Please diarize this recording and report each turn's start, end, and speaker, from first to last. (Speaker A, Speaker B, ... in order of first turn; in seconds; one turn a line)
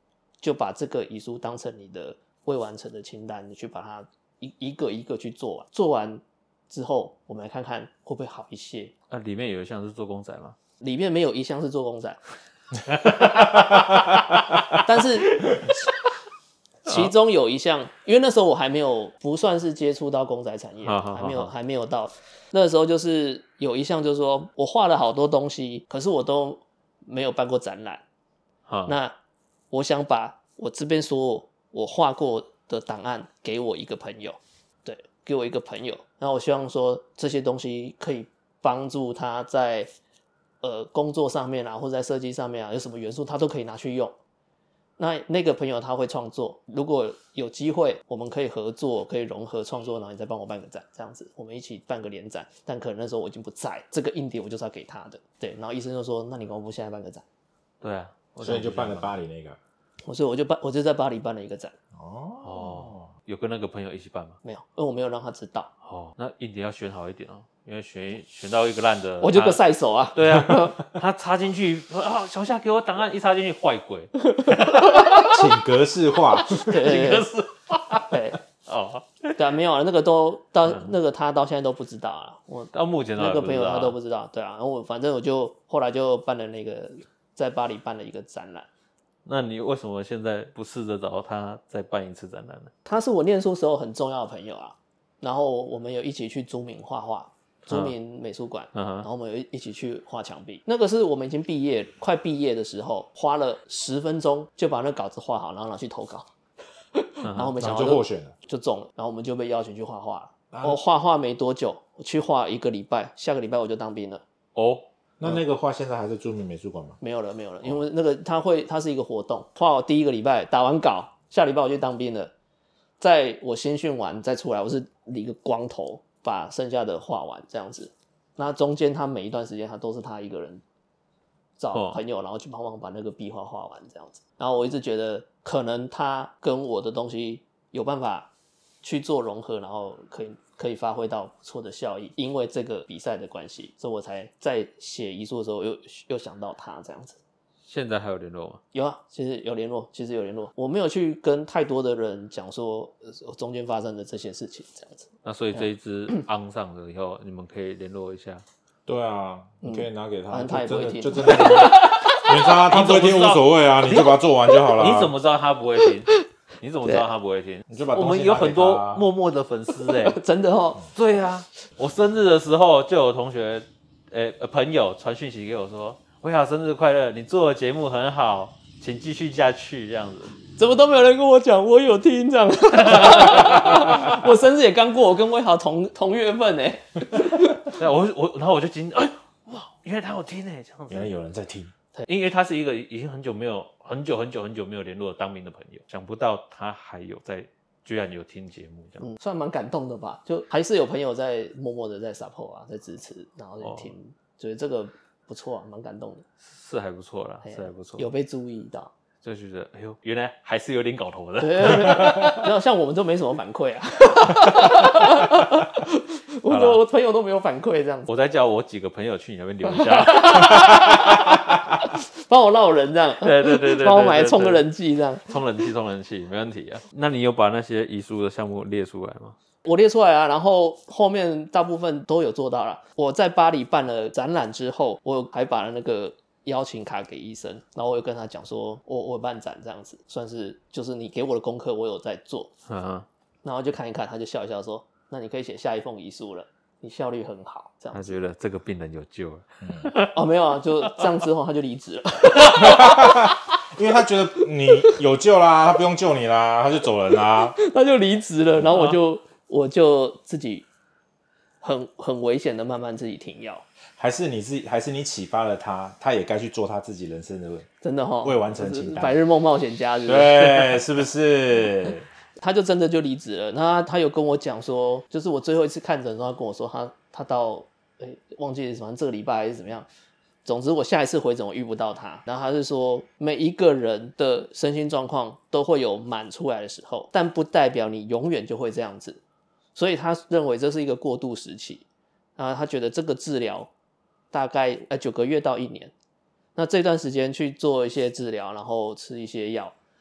Speaker A: 0.4-8.9
Speaker B: 9.1-10.6
Speaker A: 10.8-12.2
Speaker B: 12.9-14.0
Speaker A: 14.7-15.7
Speaker B: 15.3-15.8
Speaker A: 16.9-28.0
Speaker B: 20.8-21.5
Speaker B: 28.7-29.0
Speaker A: 28.9-29.1
Speaker A: 29.7-39.9
Speaker A: 40.6-44.1
Speaker A: 45.0-57.2
Speaker B: 57.8-59.1
Speaker C: 58.4-59.6
Speaker A: 60.0-61.8
Speaker C: 61.9-63.1
Speaker B: 62.4-64.4
Speaker A: 64.4-65.7
Speaker B: 65.8-69.6
Speaker A: 69.2-70.8
Speaker B: 70.2-75.5
Speaker C: 70.2-70.9
Speaker C: 75.2-76.8
Speaker B: 76.5-79.4
Speaker A: 76.6-77.3
Speaker A: 78.1-78.4
Speaker A: 79.4-88.7
Speaker B: 82.7-84.0
Speaker B: 89.2-92.7
Speaker A: 92.8-106.3
Speaker B: 97.7-98.0
Speaker B: 98.7-99.1
Speaker A: 107.0-114.2
Speaker B: 107.2-107.7
Speaker C: 107.6-108.3
Speaker C: 110.5-110.8
Speaker B: 114.5-114.9
Speaker C: 115.2-117.0
Speaker A: 117.0-122.3
Speaker A: 123.0-130.6
Speaker A: 131.6-138.3
Speaker B: 131.7-132.0
Speaker A: 138.8-147.2
Speaker B: 147.7-148.6
Speaker A: 148.7-155.1
Speaker B: 155.2-158.4
Speaker C: 158.9-165.1
Speaker A: 159.6-162.3
Speaker B: 161.3-170.2
Speaker C: 167.7-169.1
Speaker A: 169.9-170.8
Speaker B: 170.9-180.4
Speaker A: 180.6-187.8
Speaker B: 182.8-184.2
Speaker B: 187.7-191.1
Speaker C: 190.9-191.7
Speaker B: 192.1-199.1
Speaker A: 199.0-206.2
Speaker B: 203.6-203.9
Speaker B: 206.4-208.1
Speaker A: 207.4-208.9
Speaker B: 209.2-212.4
Speaker A: 211.4-218.1
Speaker B: 216.5-216.8
Speaker B: 218.1-221.0
Speaker A: 219.8-225.3
Speaker B: 223.2-224.7
Speaker B: 225.3-229.4
Speaker A: 229.7-242.5
Speaker B: 242.7-243.1
Speaker A: 243.4-248.2
Speaker B: 247.9-250.2
Speaker A: 250.1-253.3
Speaker C: 252.6-257.6
Speaker A: 257.2-260.7
Speaker B: 258.7-259.0
Speaker A: 261.6-263.6
Speaker C: 264.0-267.7
Speaker A: 267.8-270.8
Speaker C: 268.2-269.2
Speaker C: 270.0-272.1
Speaker A: 272.4-279.9
Speaker A: 280.4-289.2
Speaker A: 289.8-291.9
Speaker A: 292.4-293.7
Speaker A: 294.3-295.9
Speaker A: 296.6-299.8